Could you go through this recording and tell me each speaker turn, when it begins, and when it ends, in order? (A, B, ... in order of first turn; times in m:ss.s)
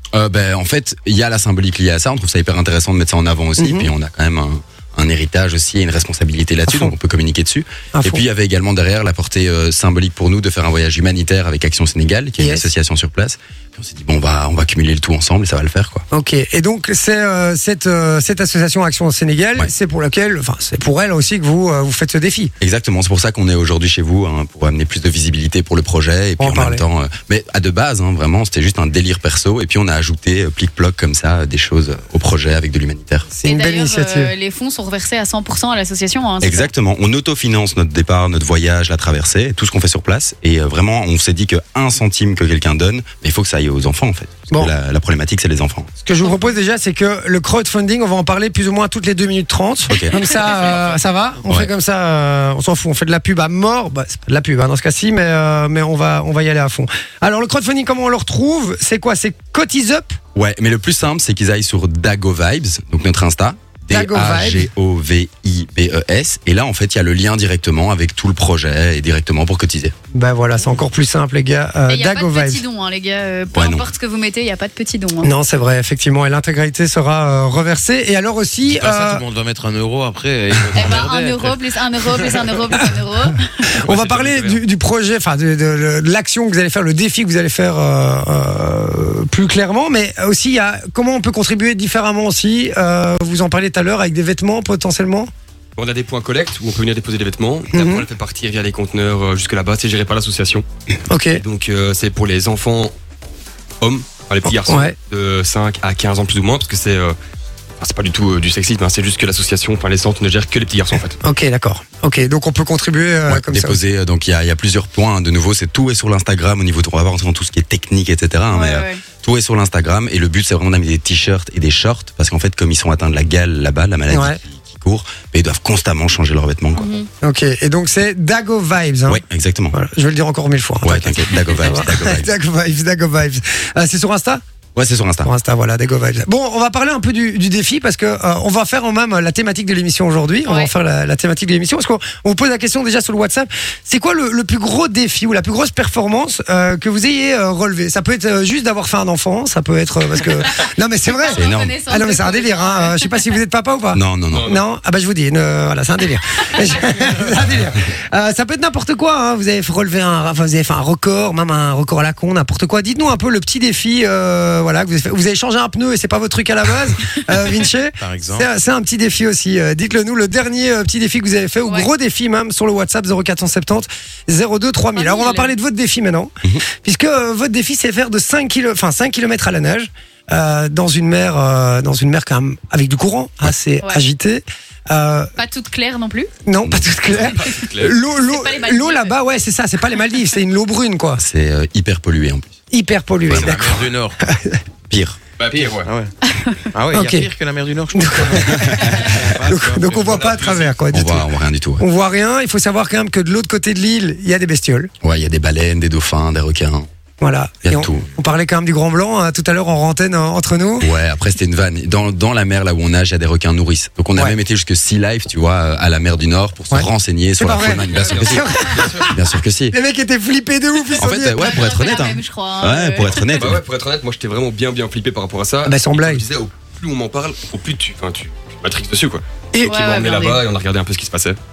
0:00.1-0:16.0 A
0:03.6-0:03.9 B
0:06.7-0:06.9 B
0:08.0-0:08.2 B
0:12.4-0:12.6 B
0:16.1-0:22.5 B
0:22.6-0:33.3 A
0:26.4-0:26.8 B
0:33.3-0:34.3 B
0:33.4-0:36.7 C
0:36.4-0:45.9 A
0:46.0-1:00.2 B
0:49.9-0:50.2 A
1:00.3-1:09.9 A
1:03.9-1:04.7 B
1:10.1-1:12.6 B
1:11.9-1:15.3 C
1:13.5-1:13.9 A
1:15.2-1:19.2 B
1:18.6-1:21.6 D
1:20.7-1:23.6 C
1:23.8-1:24.6 E
1:23.8-1:35.3 B
1:35.8-1:40.6 E
1:37.7-1:38.0 B
1:41.1-1:41.4 B
1:41.3-1:42.9 E
1:43.8-1:47.1 E
1:44.6-1:44.9 B
1:47.8-1:51.2 E
1:51.2-1:53.8 B
1:53.3-2:07.0 A
1:58.5-1:59.0 C
2:04.1-2:04.4 B
2:06.7-2:07.1 C
2:07.2-2:09.2 B
2:09.1-2:09.7 A
2:09.7-2:14.4 B
2:10.8-2:12.3 A
2:14.8-2:15.3 A
2:15.2-3:05.3 B
2:31.1-2:33.1 C
2:31.3-2:31.8 A
2:33.9-2:34.5 A
2:34.3-2:34.6 E
2:48.0-2:48.5 D
2:54.9-2:55.5 C
3:05.4-3:06.3 C
3:06.4-3:11.2 B
3:06.6-3:07.2 A
3:07.1-3:08.0 E
3:08.1-3:09.1 C
3:11.2-3:12.5 A
3:12.7-3:14.6 B
3:13.2-3:13.6 A
3:13.4-3:14.2 D
3:14.9-3:15.2 A
3:15.4-3:15.9 E
3:15.8-3:16.1 D
3:16.3-3:16.6 C
3:16.7-3:20.4 D
3:16.9-3:17.3 B
3:17.9-3:21.2 B
3:18.6-3:19.1 A
3:20.1-3:20.7 E
3:20.9-3:21.8 A
3:21.8-3:24.9 B
3:25.0-3:26.9 A
3:27.2-3:30.9 B
3:27.6-3:28.0 A
3:30.8-3:39.7 A
3:36.7-3:39.2 B
3:37.8-3:39.1 E
3:39.7-3:41.6 B
3:41.0-3:43.6 A
3:41.3-3:43.5 C
3:43.4-3:51.4 E
3:45.6-3:46.2 B
3:49.6-3:50.4 C